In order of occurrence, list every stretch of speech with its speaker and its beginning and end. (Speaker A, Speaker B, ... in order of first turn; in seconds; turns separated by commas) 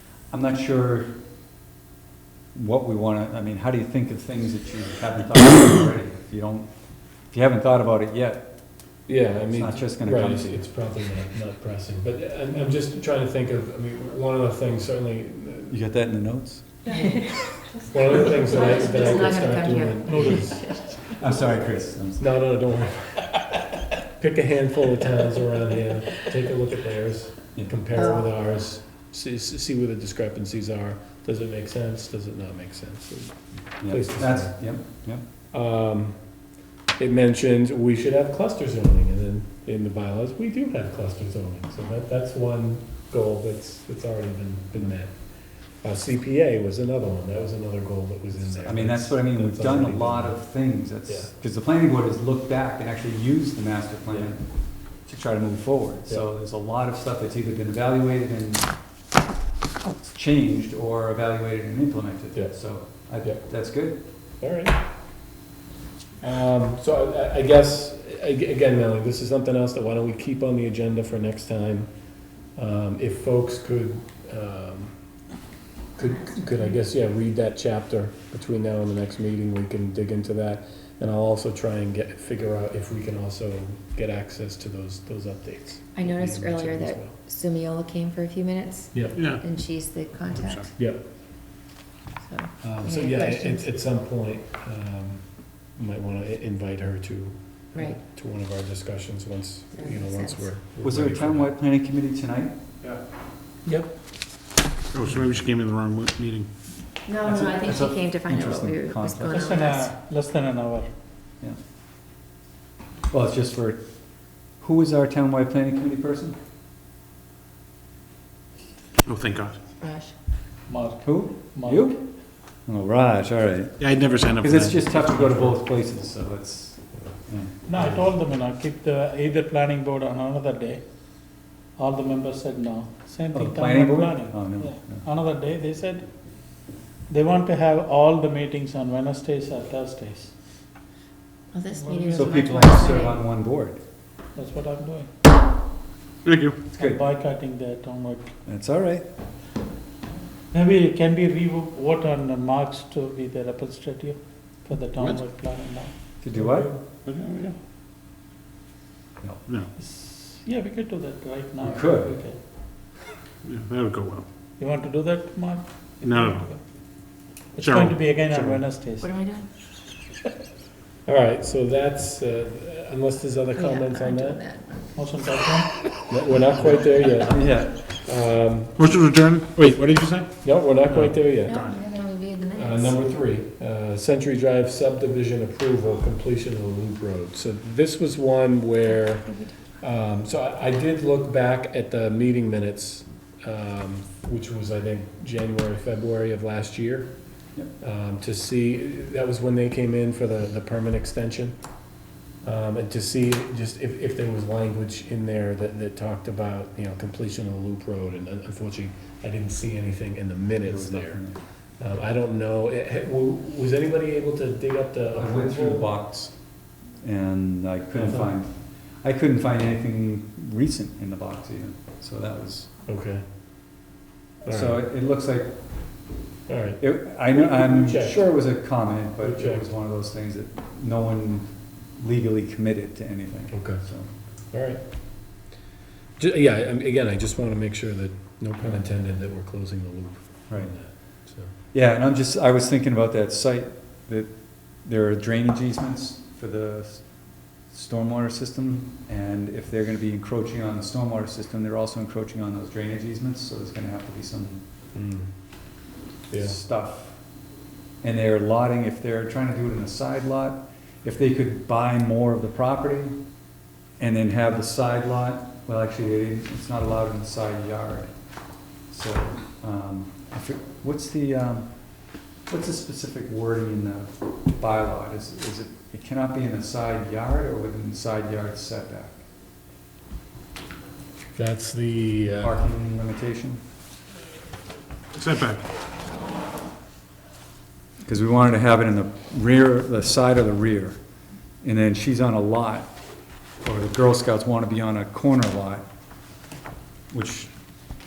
Speaker A: 0.3-1.2, Speaker A: 2.5-6.7, Speaker A: 7.3-8.5, Speaker B: 9.1-15.8, Speaker A: 9.5-10.6, Speaker A: 15.7-16.7, Speaker C: 16.9-17.4, Speaker B: 17.9-20.8, Speaker C: 18.5-21.0, Speaker D: 20.0-20.6, Speaker A: 21.1-22.2, Speaker B: 22.2-23.6, Speaker B: 24.1-34.6, Speaker C: 27.9-28.2, Speaker A: 33.8-35.2, Speaker B: 35.5-36.2, Speaker B: 37.0-50.4, Speaker A: 48.4-54.5, Speaker B: 51.1-51.3, Speaker A: 55.0-58.7, Speaker A: 60.0-64.0, Speaker B: 62.3-63.4, Speaker B: 64.4-64.8, Speaker B: 66.2-71.9, Speaker B: 72.5-74.9, Speaker B: 76.0-87.2, Speaker C: 85.9-90.7, Speaker E: 89.1-89.4, Speaker E: 90.3-90.7, Speaker B: 90.8-91.0, Speaker C: 92.2-93.7, Speaker B: 92.6-101.5, Speaker C: 97.7-98.0, Speaker C: 99.7-100.5, Speaker A: 100.8-102.5, Speaker D: 103.6-103.9, Speaker E: 104.9-106.5, Speaker C: 107.0-109.9, Speaker A: 107.2-109.5, Speaker D: 109.2-110.9, Speaker A: 113.1-116.3, Speaker E: 119.0-119.5, Speaker C: 119.8-120.1, Speaker D: 120.7-121.9, Speaker A: 121.0-122.1, Speaker A: 122.7-128.1, Speaker E: 123.8-125.5, Speaker D: 127.7-130.8, Speaker D: 131.8-136.1, Speaker A: 133.3-135.1, Speaker D: 137.1-140.3, Speaker C: 141.5-143.2, Speaker D: 141.8-142.7, Speaker A: 142.1-143.8, Speaker D: 144.3-145.1, Speaker E: 146.2-146.6, Speaker D: 146.7-148.3, Speaker A: 146.7-147.0, Speaker A: 148.5-149.1, Speaker D: 150.5-155.9, Speaker A: 156.2-156.7, Speaker B: 156.3-156.8, Speaker E: 157.1-157.6, Speaker D: 159.8-162.4, Speaker A: 161.6-162.2, Speaker E: 163.4-164.2, Speaker D: 164.6-166.6, Speaker E: 166.0-166.5, Speaker D: 167.6-169.1, Speaker E: 167.6-168.6, Speaker C: 169.0-169.5, Speaker B: 171.1-174.4, Speaker C: 173.6-174.9, Speaker D: 174.9-175.8, Speaker B: 176.0-178.9, Speaker A: 177.3-177.8, Speaker E: 178.8-181.8, Speaker B: 179.7-181.7, Speaker C: 181.4-183.0, Speaker B: 182.5-197.1, Speaker B: 197.8-201.6, Speaker B: 202.4-211.3, Speaker A: 210.6-211.4, Speaker B: 211.8-215.9, Speaker A: 215.2-216.4, Speaker A: 217.0-222.7, Speaker B: 217.9-218.3, Speaker B: 222.9-223.2, Speaker B: 224.4-224.8, Speaker A: 224.5-225.6, Speaker B: 226.5-228.4, Speaker A: 226.8-234.1, Speaker B: 229.2-229.7, Speaker B: 233.5-233.8, Speaker B: 234.5-234.8, Speaker B: 236.2-241.5, Speaker A: 240.5-241.2, Speaker A: 241.7-254.6, Speaker B: 254.9-255.3, Speaker B: 256.3-256.6, Speaker A: 256.4-257.2, Speaker A: 258.0-263.2, Speaker A: 264.0-268.1, Speaker A: 268.9-271.8, Speaker A: 272.4-279.2, Speaker B: 281.4-282.6, Speaker A: 282.4-283.6, Speaker E: 285.1-285.6, Speaker A: 288.1-291.0, Speaker A: 291.6-292.9, Speaker A: 293.6-295.9, Speaker A: 297.1-297.5